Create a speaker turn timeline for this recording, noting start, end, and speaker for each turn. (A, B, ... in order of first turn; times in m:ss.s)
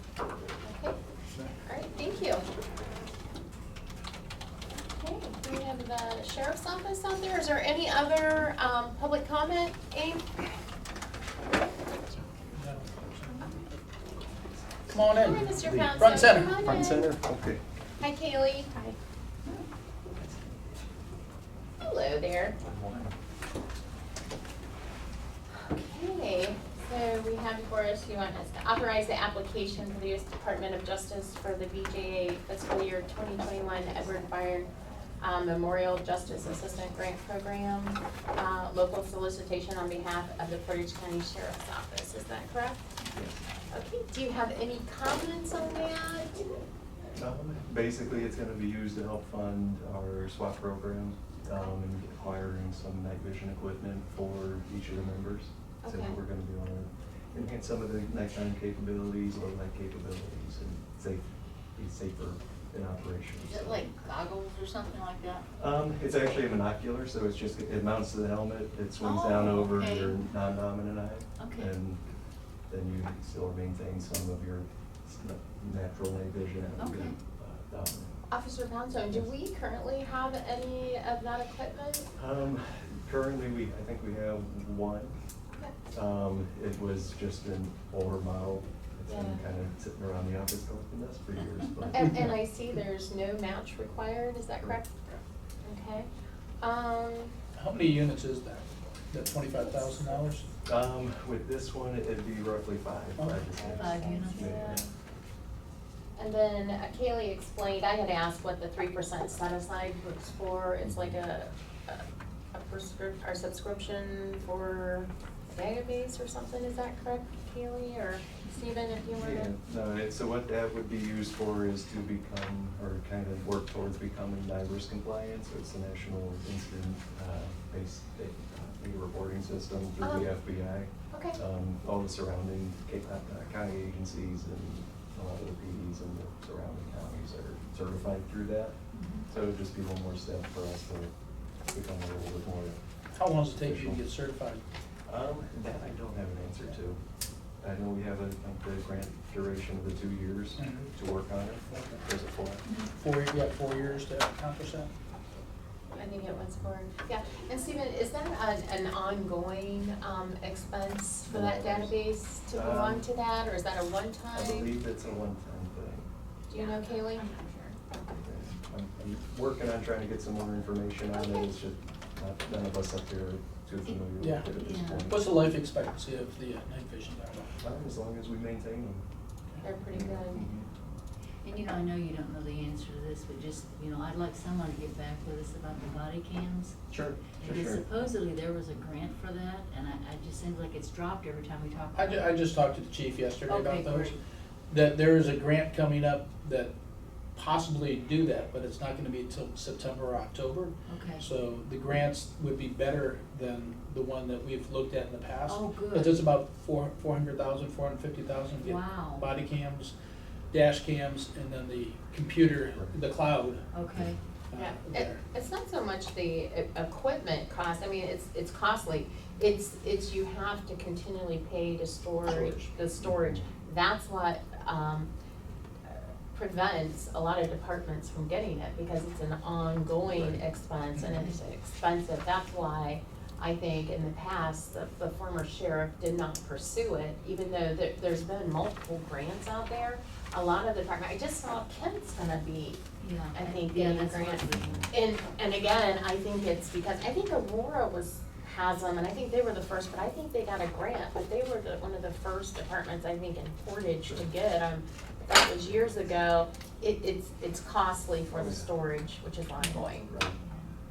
0:00.6-0:01.0 A
0:01.6-0:02.4 A
0:04.9-0:10.5 A
0:12.5-0:13.6 B
0:14.9-0:16.8 B
0:15.0-0:17.1 A
0:15.6-0:16.0 C
0:16.6-0:17.6 C
0:18.0-0:19.0 A
0:20.1-0:20.6 C
0:21.8-0:22.6 A
0:22.6-0:23.1 C
0:25.5-0:42.8 A
0:43.1-0:43.4 C
0:43.7-0:46.4 A
0:47.2-1:01.2 C
0:55.8-0:56.2 A
1:01.8-1:03.9 C
1:03.4-1:05.5 D
1:05.6-1:12.0 C
1:09.0-1:10.2 D
1:11.4-1:11.7 D
1:12.7-1:18.2 C
1:16.8-1:17.2 D
1:18.3-1:22.1 A
1:22.2-1:25.2 C
1:25.9-1:32.0 C
1:29.1-1:29.5 A
1:31.9-1:35.0 A
1:35.6-1:36.1 A
1:36.6-1:37.3 A
1:37.6-1:40.5 B
1:39.6-1:40.4 A
1:40.6-1:44.8 C
1:43.2-1:43.5 B
1:43.6-1:44.9 A
1:43.7-1:44.6 D
1:46.2-1:59.5 A
1:50.8-1:51.2 C
1:59.2-2:21.1 C
2:10.0-2:10.3 A
2:11.1-2:11.4 A
2:18.9-2:19.2 D
2:21.7-2:22.8 C
2:23.2-2:24.6 B
2:23.5-2:24.0 C
2:25.1-2:27.0 C
2:27.6-2:32.6 C
2:30.6-2:30.9 B
2:31.7-2:32.0 B
2:32.6-2:32.9 D
2:33.0-2:34.9 B
2:35.9-2:44.7 A
2:41.3-2:42.0 C
2:42.5-2:43.1 C
2:44.3-2:46.1 C
2:46.5-2:47.3 A
2:46.5-2:47.8 D
2:47.9-2:48.1 A
2:48.2-2:55.3 C
2:51.1-2:51.5 A
2:54.2-2:54.5 B
2:54.6-2:55.1 D
2:55.1-2:57.6 B
2:57.6-2:59.0 C
2:59.6-3:00.5 A
2:59.8-3:00.7 C
3:01.4-3:06.8 D
3:06.9-3:07.8 C
3:07.4-3:12.3 D
3:12.0-3:14.1 B
3:13.5-3:14.2 D
3:14.7-3:16.7 B
3:17.4-3:30.0 B
3:20.9-3:21.2 D
3:25.5-3:26.2 D
3:28.6-3:29.3 D
3:30.5-3:33.6 B
3:33.7-3:34.2 D
3:34.5-3:35.2 B
3:34.6-3:45.1 A
3:43.0-3:43.5 C
3:45.9-4:02.8 A
3:50.1-3:50.4 C
4:03.0-4:04.9 D
4:03.3-4:20.1 A
4:18.3-4:18.7 C
4:19.6-4:20.8 D
4:20.1-4:20.4 C